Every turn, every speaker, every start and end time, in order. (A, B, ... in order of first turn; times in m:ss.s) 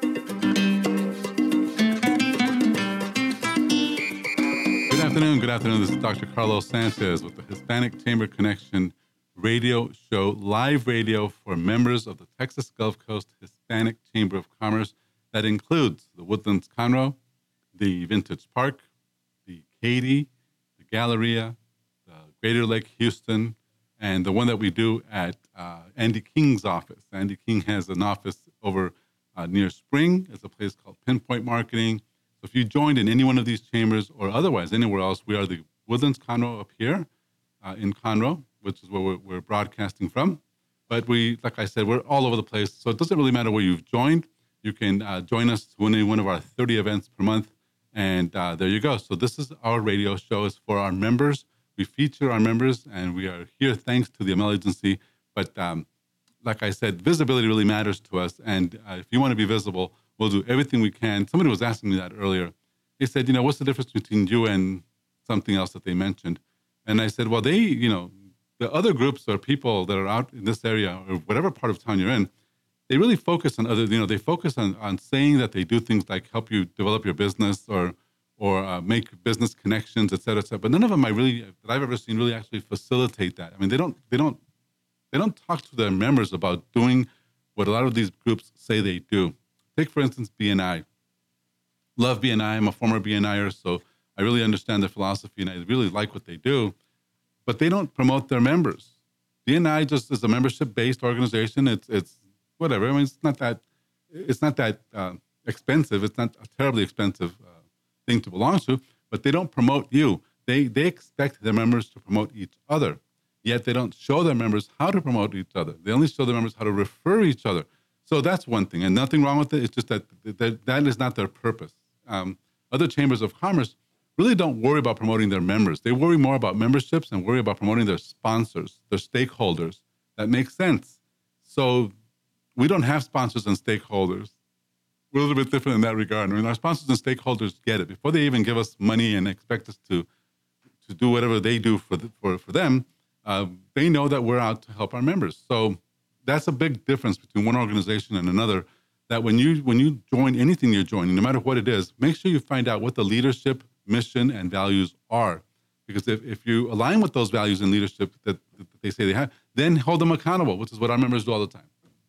0:04.9-0:17.2 A
0:17.7-0:18.8 A
0:19.4-0:20.3 A
0:20.8-0:21.6 A
0:22.1-0:37.1 A
0:37.6-0:55.8 A
0:56.4-1:12.3 A
1:12.9-1:24.4 A
1:25.1-1:30.8 A
1:32.0-1:36.7 A
1:37.4-1:38.9 A
1:39.4-1:47.5 A
1:48.0-2:11.9 A
2:12.5-2:14.3 A
2:15.1-2:20.1 A
2:20.8-2:41.7 A